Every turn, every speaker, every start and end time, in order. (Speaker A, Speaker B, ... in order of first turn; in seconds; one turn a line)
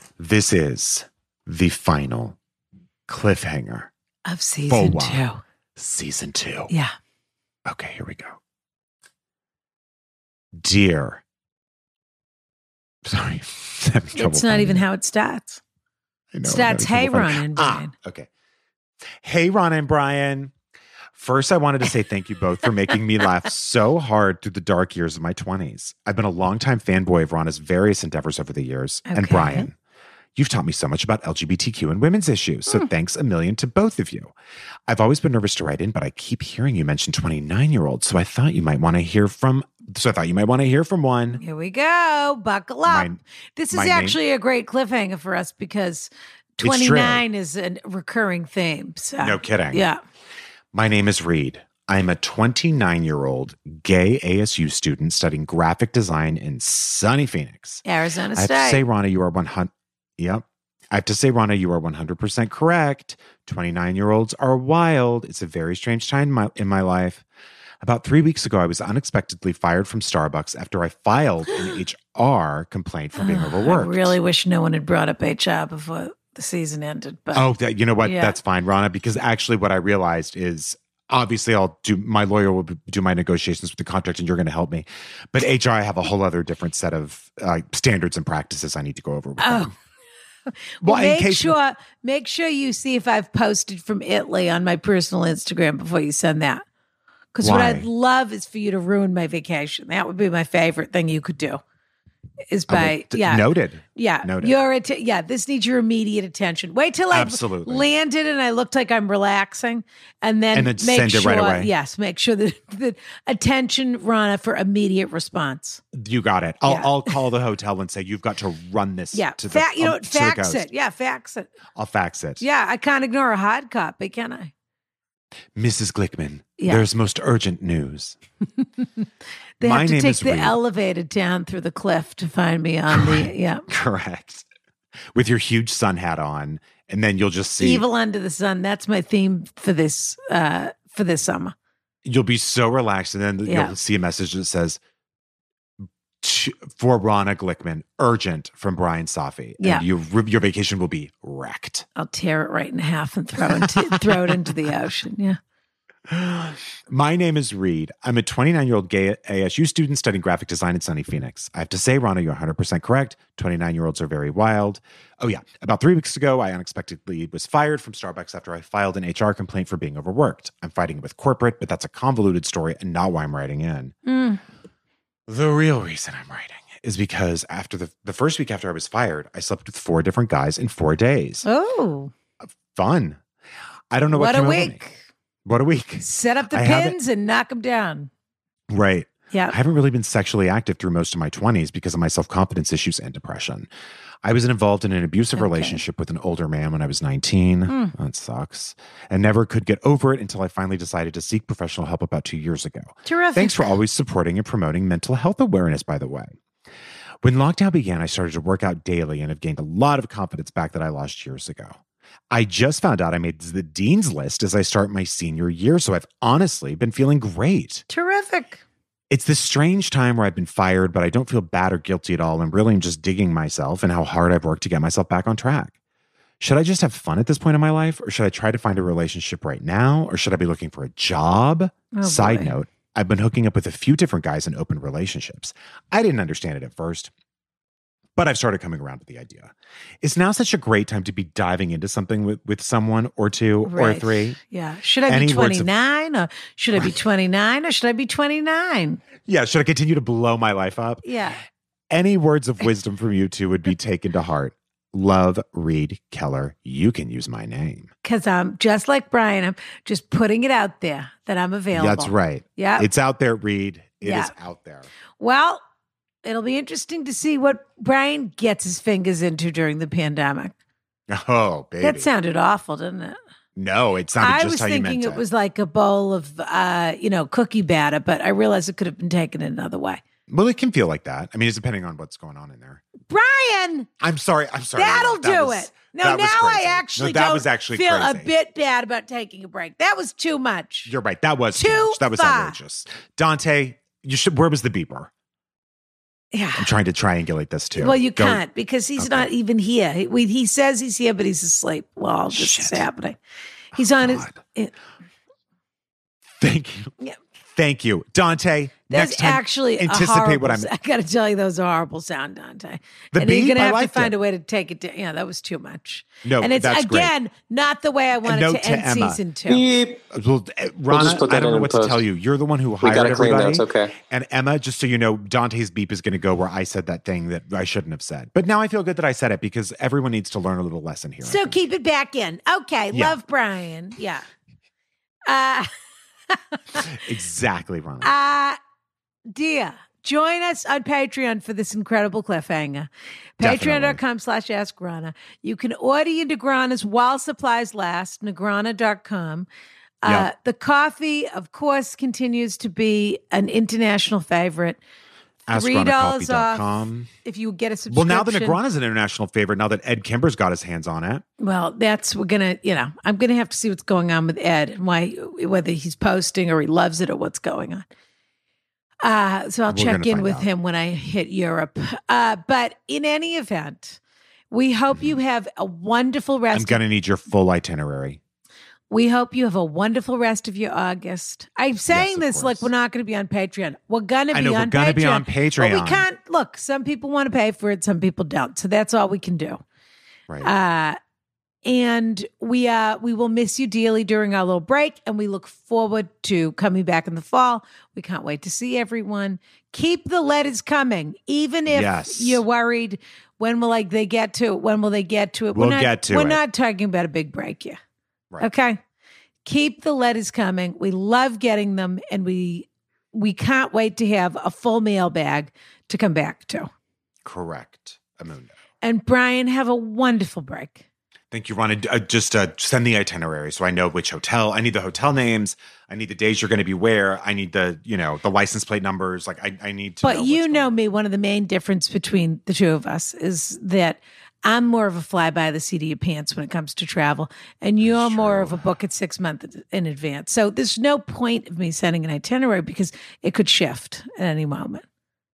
Speaker A: 0.2-2.4
Speaker A: 3.1-3.9
Speaker B: 4.3-5.4
Speaker A: 4.7-5.2
Speaker A: 5.8-6.7
Speaker A: 7.7-8.4
Speaker A: 10.6-11.2
Speaker A: 13.0-14.8
Speaker B: 14.1-15.6
Speaker A: 16.3-18.3
Speaker B: 16.4-17.9
Speaker A: 19.2-20.5
Speaker A: 21.1-29.7
Speaker B: 29.1-29.7
Speaker A: 30.4-34.3
Speaker A: 34.9-41.4
Speaker B: 41.4-50.0
Speaker A: 42.9-43.2
Speaker A: 43.7-44.2
Speaker A: 46.6-47.2
Speaker A: 49.2-49.8
Speaker A: 50.7-57.8
Speaker B: 57.8-58.8
Speaker A: 58.3-67.2
Speaker A: 67.8-74.2
Speaker B: 73.2-77.5
Speaker A: 77.3-89.7
Speaker B: 78.0-78.3
Speaker B: 89.4-89.7
Speaker B: 90.8-96.6
Speaker A: 90.8-91.5
Speaker B: 97.3-101.6
Speaker A: 97.4-97.9
Speaker B: 102.5-115.8
Speaker A: 102.7-104.6
Speaker A: 107.1-107.8
Speaker A: 110.5-111.7
Speaker A: 115.9-120.7
Speaker B: 116.7-116.9
Speaker B: 119.1-121.5
Speaker A: 121.7-122.4
Speaker B: 122.4-124.5
Speaker A: 125.5-128.2
Speaker B: 126.6-126.8
Speaker B: 129.6-133.7
Speaker A: 129.6-130.6
Speaker A: 132.9-134.4
Speaker A: 135.1-137.8
Speaker B: 137.6-141.5
Speaker A: 142.0-144.8
Speaker B: 143.4-143.7
Speaker A: 146.2-151.8
Speaker B: 151.9-155.4
Speaker A: 153.5-154.5
Speaker A: 156.1-173.9
Speaker B: 174.1-174.4
Speaker A: 175.3-181.4
Speaker B: 181.4-182.1
Speaker A: 182.6-183.2
Speaker A: 183.9-184.8
Speaker B: 184.1-185.0
Speaker A: 185.4-186.9
Speaker B: 186.0-188.1
Speaker A: 188.7-193.7
Speaker B: 189.3-189.6
Speaker A: 194.2-206.3
Speaker B: 195.3-195.8
Speaker B: 197.7-197.9
Speaker B: 203.1-203.7
Speaker A: 207.2-211.8
Speaker A: 212.3-217.8
Speaker B: 217.9-218.6
Speaker A: 219.1-225.7
Speaker A: 226.4-237.1
Speaker B: 231.9-232.5
Speaker A: 238.2-244.4
Speaker B: 243.7-249.0
Speaker A: 245.1-245.7
Speaker A: 249.2-251.0
Speaker B: 251.0-251.4
Speaker A: 251.9-257.9
Speaker B: 258.0-262.9
Speaker A: 261.7-264.9
Speaker B: 264.0-264.3
Speaker B: 265.2-265.6
Speaker B: 266.2-270.5
Speaker A: 271.1-272.1
Speaker B: 271.8-273.2
Speaker A: 273.6-275.2
Speaker B: 274.2-280.0
Speaker A: 280.3-282.8
Speaker B: 283.1-283.9
Speaker A: 284.0-288.3
Speaker B: 284.7-290.9
Speaker A: 290.9-295.1
Speaker B: 291.5-292.6
Speaker B: 296.3-296.7
Speaker A: 296.6-298.4
Speaker B: 297.8-303.1
Speaker A: 299.0-299.3
Speaker A: 302.3-302.8
Speaker B: 303.7-304.7
Speaker A: 303.9-304.4
Speaker A: 306.4-306.9
Speaker A: 307.4-310.7
Speaker B: 308.9-319.7
Speaker A: 313.1-314.1
Speaker A: 316.2-317.1
Speaker A: 318.2-319.2
Speaker C: 319.5-320.0
Speaker A: 320.1-331.6
Speaker C: 320.9-322.0
Speaker C: 322.8-324.0
Speaker B: 331.2-334.2
Speaker A: 332.9-333.2
Speaker B: 335.3-335.7
Speaker B: 336.3-336.9
Speaker A: 336.7-338.1
Speaker B: 338.0-338.6
Speaker B: 339.3-349.5
Speaker A: 343.4-344.0
Speaker B: 350.0-354.8
Speaker A: 350.0-350.3
Speaker A: 355.5-357.1
Speaker B: 355.5-358.6
Speaker A: 357.9-361.2
Speaker B: 361.4-367.9
Speaker B: 369.0-374.0
Speaker A: 369.7-370.4
Speaker B: 374.5-376.8
Speaker A: 376.5-378.2
Speaker B: 378.9-389.6
Speaker A: 381.9-382.7
Speaker A: 384.3-386.1
Speaker B: 390.4-391.0
Speaker B: 391.6-407.8
Speaker A: 401.7-402.4
Speaker A: 405.5-406.4
Speaker B: 408.4-408.8
Speaker B: 409.4-416.7
Speaker A: 417.2-418.5
Speaker B: 418.8-420.8
Speaker A: 421.3-430.7
Speaker B: 430.0-444.8
Speaker A: 437.8-438.7